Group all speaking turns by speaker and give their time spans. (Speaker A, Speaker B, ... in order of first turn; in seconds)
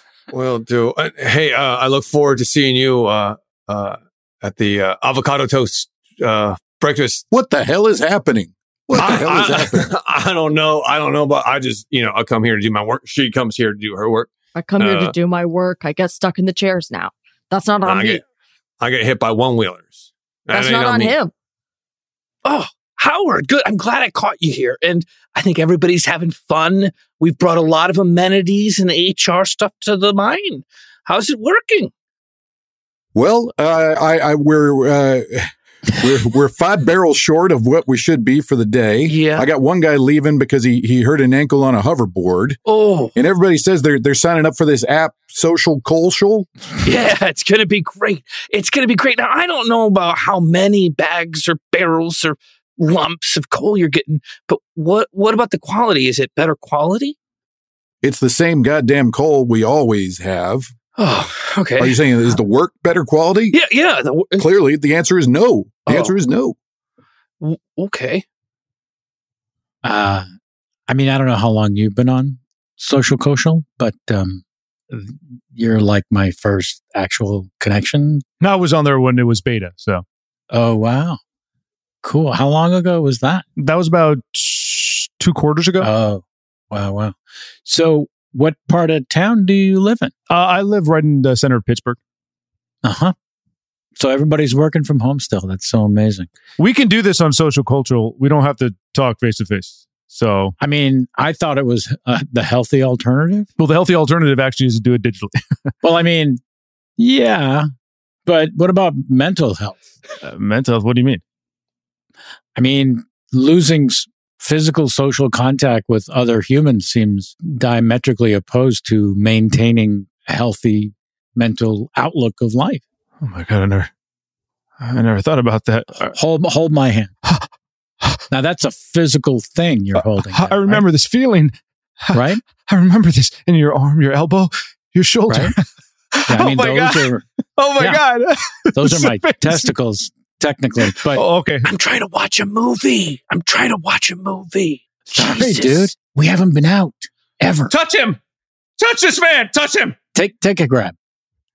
Speaker A: 0.3-7.2, 8.9-15.1, 17.8-18.2, 18.8-21.1
Speaker B: 7.3-9.9, 33.1-42.6, 43.1-46.5, 58.0-60.7, 61.8-63.6, 64.4-66.5
Speaker C: 14.5-18.2, 20.5-21.3
Speaker D: 22.4-31.9, 39.1-39.5, 42.7-43.1, 46.8-57.1, 61.0-62.0, 63.5-64.5, 65.9-66.2, 67.4-68.2, 141.7-145.9
Speaker E: 69.8-70.2, 70.9-78.2, 80.5-81.2, 82.0-83.5, 85.8-90.1, 92.8-93.1, 94.0-96.3, 100.6-103.5, 105.8-106.4, 107.0-107.7, 108.2-109.8, 112.5-122.8, 126.1-127.1, 128.3-130.8, 132.1-132.4, 135.3-135.6, 136.3-137.2, 138.7-141.2, 145.1-147.7, 150.1-150.9
Speaker F: 78.4-80.0, 83.6-85.9, 90.3-92.0, 96.6-100.5, 103.6-105.3, 110.2-111.2, 123.2-123.9, 124.8-126.1, 130.2-139.7, 141.1-141.7, 147.7-148.2, 148.8-149.9